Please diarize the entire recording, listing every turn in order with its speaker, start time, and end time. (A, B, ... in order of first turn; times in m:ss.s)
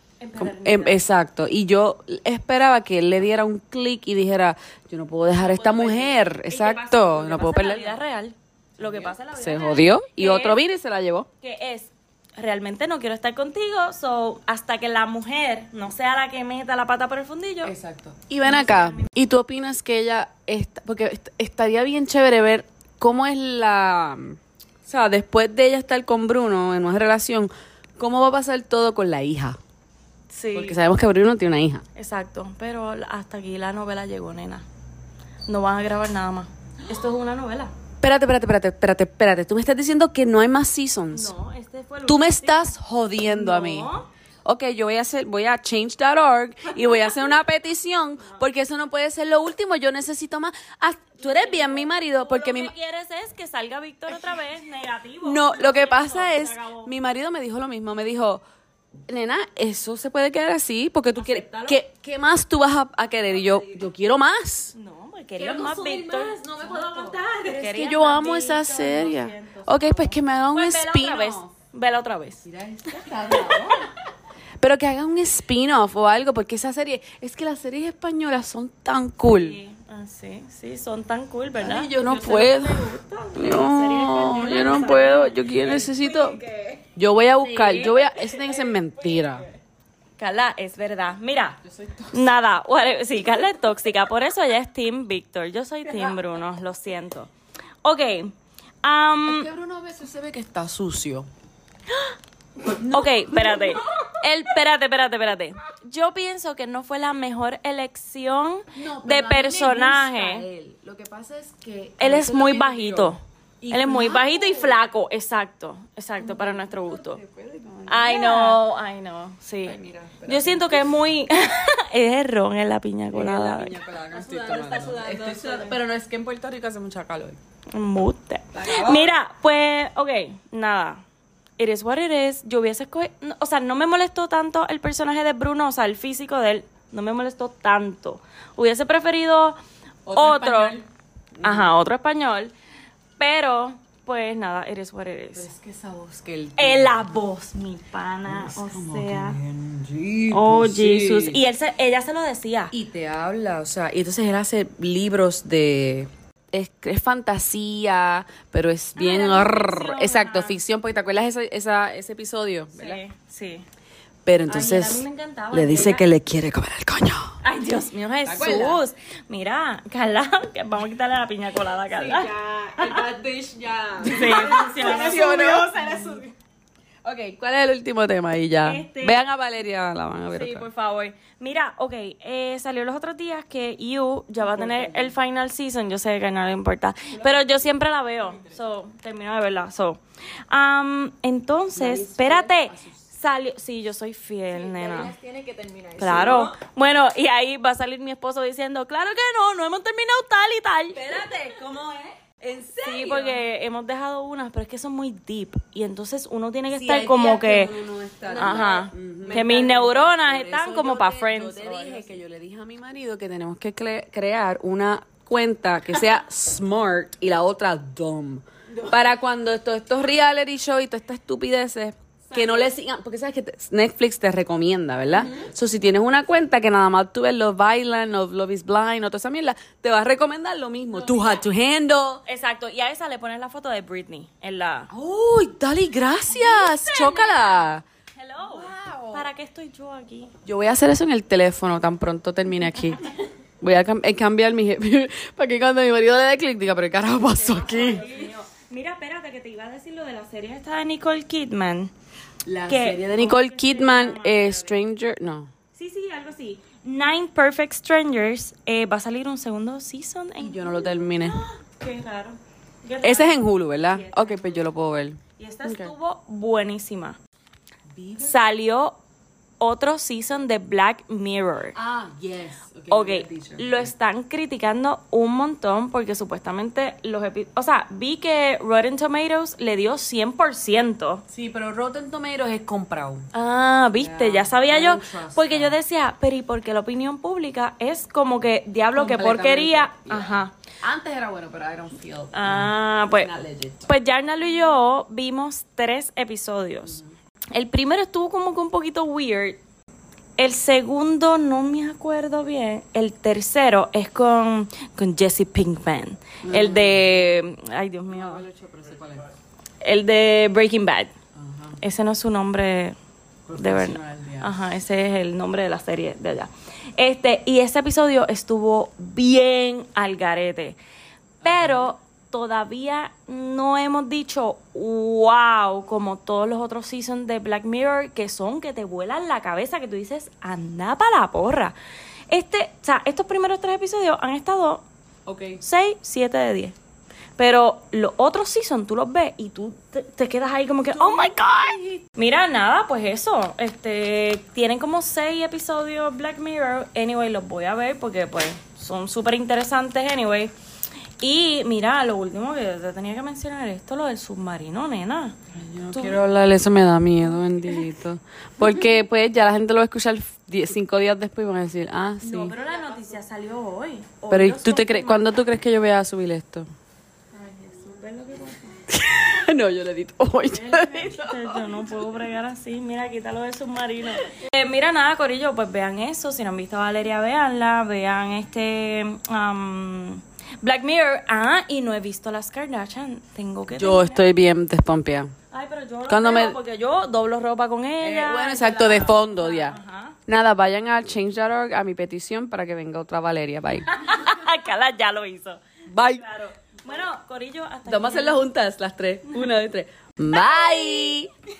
0:00.2-0:01.0 A
0:00.4-0:08.0 B
0:05.5-0:10.6 A
0:08.8-0:11.3 B
0:11.4-0:17.7 A
0:17.6-0:29.6 B
0:18.4-0:19.1 A
0:30.3-0:30.8 A
0:30.5-0:31.8 B
0:32.0-0:34.6 A
0:35.5-0:37.7 A
0:38.0-0:41.3 B
0:41.1-0:44.1 A
0:42.0-0:43.9 B
0:44.4-0:52.7 B
0:46.8-0:47.1 A
0:51.2-0:56.9 A
0:55.2-0:58.4 B
0:59.1-1:04.7 B
1:01.2-1:01.8 A
1:03.3-1:03.8 C
1:04.7-1:12.4 A
1:05.4-1:07.6 C
1:07.6-1:11.5 B
1:12.4-1:13.8 B
1:13.2-1:13.7 C
1:14.6-1:19.6 B
1:19.3-1:25.5 A
1:21.6-1:26.4 B
1:25.5-1:26.8 C
1:27.0-1:29.4 B
1:27.4-1:28.0 A
1:27.6-1:29.3 C
1:30.2-1:31.6 A
1:31.6-1:32.3 B
1:32.1-1:37.3 A
1:37.8-1:39.5 A
1:39.2-1:41.3 B
1:42.6-1:43.8 B
1:42.7-1:50.4 A
1:48.7-1:54.8 B
1:52.0-1:57.2 A
1:56.2-1:58.6 B
1:57.9-2:03.8 A
1:59.6-2:00.9 B
2:03.1-2:07.4 B
2:04.1-2:05.8 C
2:07.7-2:11.0 A
2:08.5-2:09.1 B
2:11.6-2:19.6 A
2:20.1-2:20.8 B
2:20.1-2:20.8 A
2:21.4-2:21.7 B
2:21.4-2:22.5 A
2:23.2-2:25.5 A
2:25.3-2:27.1 B
2:26.6-2:29.4 A
2:28.3-2:31.4 B
2:30.3-2:32.7 A
2:32.7-2:43.0 B
2:39.0-2:40.6 A
2:42.7-2:43.6 A
2:44.2-2:47.4 B
2:44.5-2:46.1 A
2:47.4-2:53.1 A
2:48.2-2:48.8 B
2:48.4-2:48.7 C
2:51.9-2:56.3 C
2:54.0-2:55.5 A
2:54.8-2:56.2 B
2:57.0-3:00.7 B
2:58.6-2:59.2 A
3:00.3-3:15.1 A
3:04.4-3:05.2 B
3:07.1-3:07.6 B
3:11.8-3:13.0 B
3:14.5-3:16.5 C
3:16.0-3:21.1 A
3:16.0-3:16.6 B
3:20.9-3:23.4 B
3:22.8-3:27.8 A
3:26.7-3:52.2 B
3:28.3-3:29.6 C
3:28.3-3:32.2 A
3:42.3-3:42.7 C
3:51.0-3:51.4 A
3:52.3-3:54.9 A
3:54.9-3:57.8 B
3:56.3-4:00.3 A
3:58.4-3:59.3 B
4:00.4-4:03.1 B
4:03.6-4:08.1 B
4:07.3-4:11.9 A
4:12.4-4:15.5 B
4:12.7-4:14.8 A
4:15.7-4:24.7 A
4:20.4-4:21.4 B
4:23.0-4:25.9 B
4:25.4-4:27.2 A
4:27.9-4:28.4 B
4:28.2-4:29.0 A
4:29.6-4:31.8 A
4:31.8-4:33.9 B
4:32.9-4:41.2 A
4:41.3-4:43.3 B
4:43.3-4:50.5 A
4:43.9-4:45.8 B
4:48.9-4:53.9 B
4:52.3-4:53.3 A
4:53.9-4:57.0 A
4:56.8-4:57.1 B
4:57.5-4:59.6 A
5:00.4-5:08.4 A
5:06.4-5:07.4 B
5:08.1-5:09.3 B
5:09.8-5:11.1 A
5:11.4-5:11.8 B
5:11.8-5:13.0 A
5:13.5-5:14.6 B
5:13.6-5:20.8 A
5:21.4-5:21.9 B
5:21.4-5:31.8 A
5:32.3-5:34.9 A
5:35.3-5:35.6 B
5:35.6-5:36.8 A
5:37.4-5:50.5 A
5:40.9-5:42.0 B
5:51.2-5:55.4 A
5:55.5-6:02.6 B
5:55.9-5:56.3 A
6:02.2-6:05.3 A
6:02.6-6:03.2 C
6:04.3-6:06.7 B
6:07.4-6:08.8 A
6:08.9-6:11.9 B
6:10.5-6:24.2 A
6:23.7-6:25.3 B
6:25.5-6:30.2 A
6:26.1-6:26.6 B
6:28.0-6:33.9 B
6:33.9-6:38.4 A
6:35.9-6:36.4 B
6:37.9-6:41.3 B
6:40.4-6:41.1 A